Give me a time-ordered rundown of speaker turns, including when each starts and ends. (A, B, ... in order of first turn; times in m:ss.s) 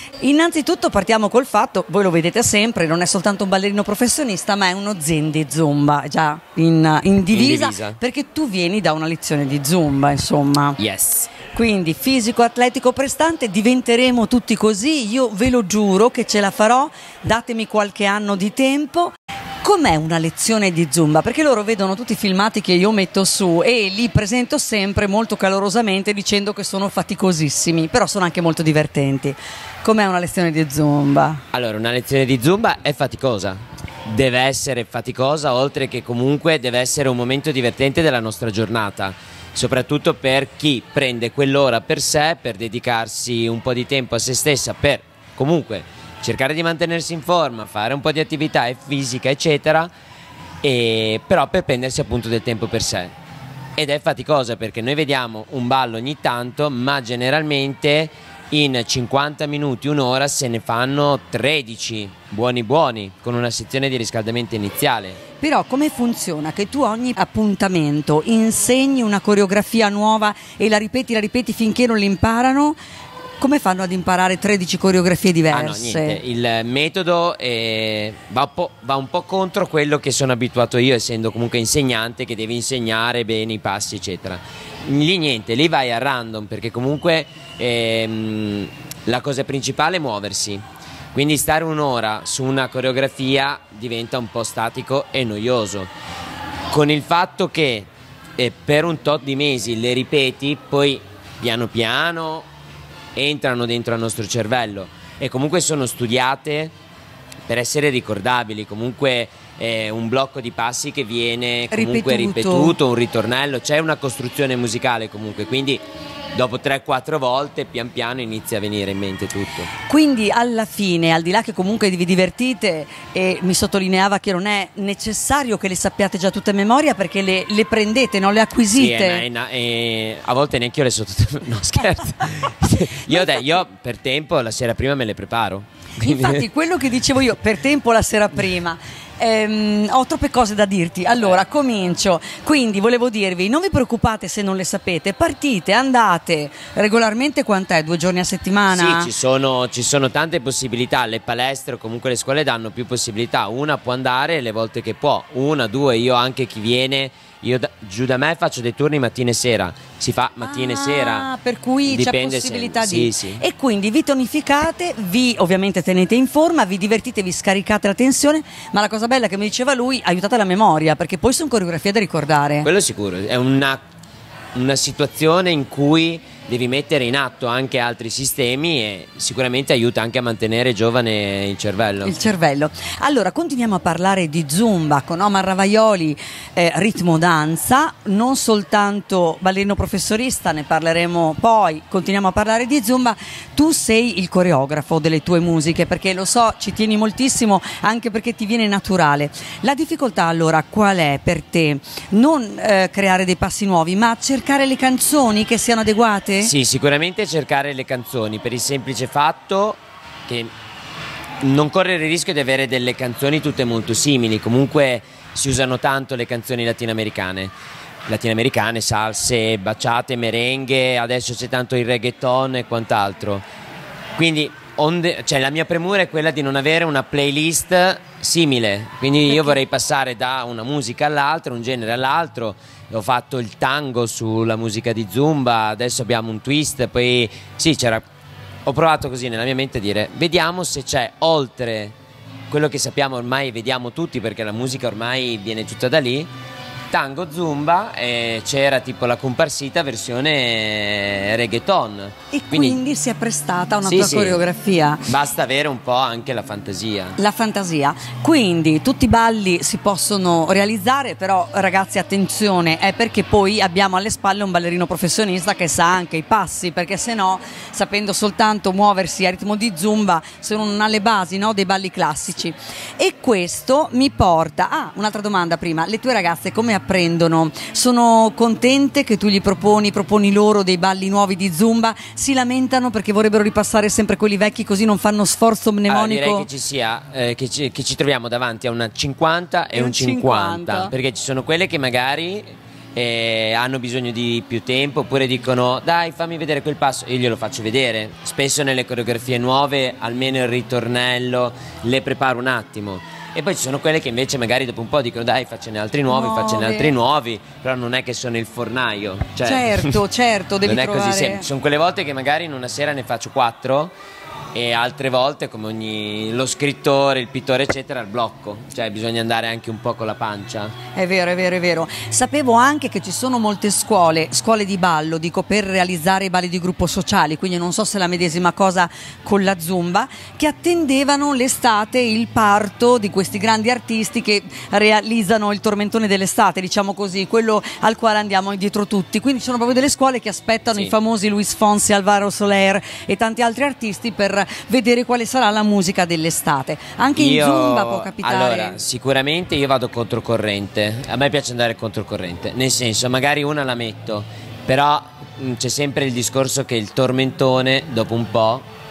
0:00.2-0:10.8 A
0:07.3-0:08.0 B
0:10.8-0:11.3 B
0:11.5-0:31.4 A
0:31.5-0:49.9 B
0:50.6-0:53.2 B
0:53.8-1:05.2 B
1:05.4-1:12.8 A
1:13.4-1:16.2 A
1:15.5-1:35.9 B
1:36.7-1:42.5 B
1:43.2-1:46.7 B
1:47.5-1:55.8 B
1:51.7-1:52.8 A
1:56.3-1:59.7 B
1:59.8-2:09.2 A
2:08.7-2:16.5 B
2:13.1-2:13.6 A
2:16.0-2:29.1 A
2:28.7-2:41.3 B
2:40.4-2:52.7 A
2:41.9-2:43.4 B
2:52.6-2:53.8 B
2:54.5-3:02.1 B
3:02.0-3:26.5 A
3:26.4-3:30.5 B
3:31.4-3:37.5 B
3:38.1-3:43.4 B
3:44.2-3:58.0 B
3:49.3-3:49.6 A
3:58.6-4:02.0 B
4:02.5-4:06.3 B
4:06.9-4:12.8 B
4:12.3-4:15.1 A
4:13.8-4:14.4 B
4:15.1-4:17.2 B
4:17.2-4:46.5 A
4:45.9-5:10.0 B
4:49.7-4:50.9 A
5:06.1-5:06.9 A
5:09.4-5:11.5 A
5:10.6-5:13.9 B
5:14.5-5:20.8 B
5:20.9-5:48.8 A
5:47.2-5:58.6 B